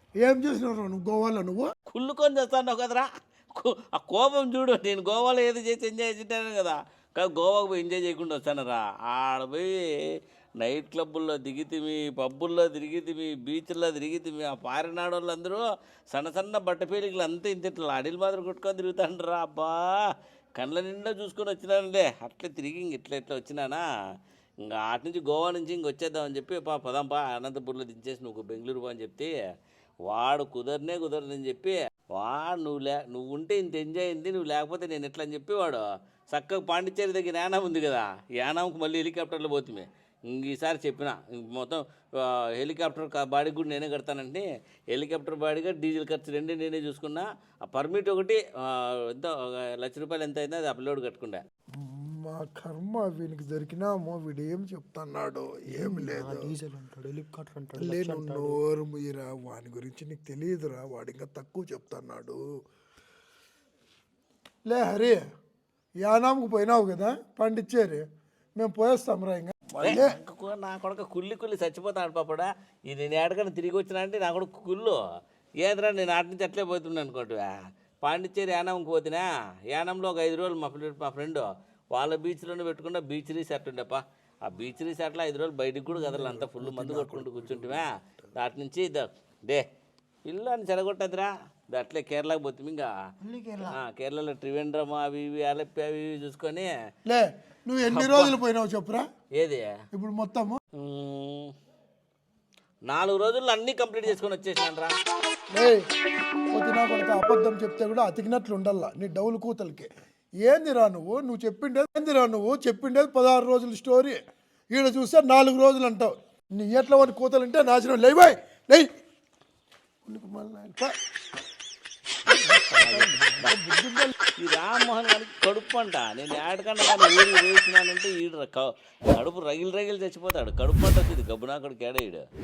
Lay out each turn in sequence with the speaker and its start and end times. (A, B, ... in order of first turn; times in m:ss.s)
0:00.2-0:01.7 A
0:01.9-0:23.8 B
0:24.6-0:29.3 B
0:30.1-0:51.4 B
0:51.8-0:56.5 A
0:55.7-0:58.6 C
0:57.8-1:02.4 A
1:04.6-1:05.2 A
1:06.0-1:08.0 A
1:08.6-1:10.2 A
1:09.8-1:15.0 B
1:15.6-1:29.6 B
1:25.9-1:28.0 A
1:30.2-1:32.9 B
1:33.2-1:33.8 C
1:33.6-1:36.7 B
1:37.1-1:39.0 A
1:37.8-1:38.4 B
1:39.4-1:39.7 B
1:39.9-1:40.6 A
1:40.8-1:41.5 B
1:42.9-1:44.9 B
1:45.5-1:45.8 A
1:46.5-1:49.9 A
1:50.4-1:54.2 A
1:54.7-1:58.9 A
2:00.0-2:00.9 A
2:02.3-2:04.1 A
2:02.8-2:03.6 B
2:04.4-2:12.2 B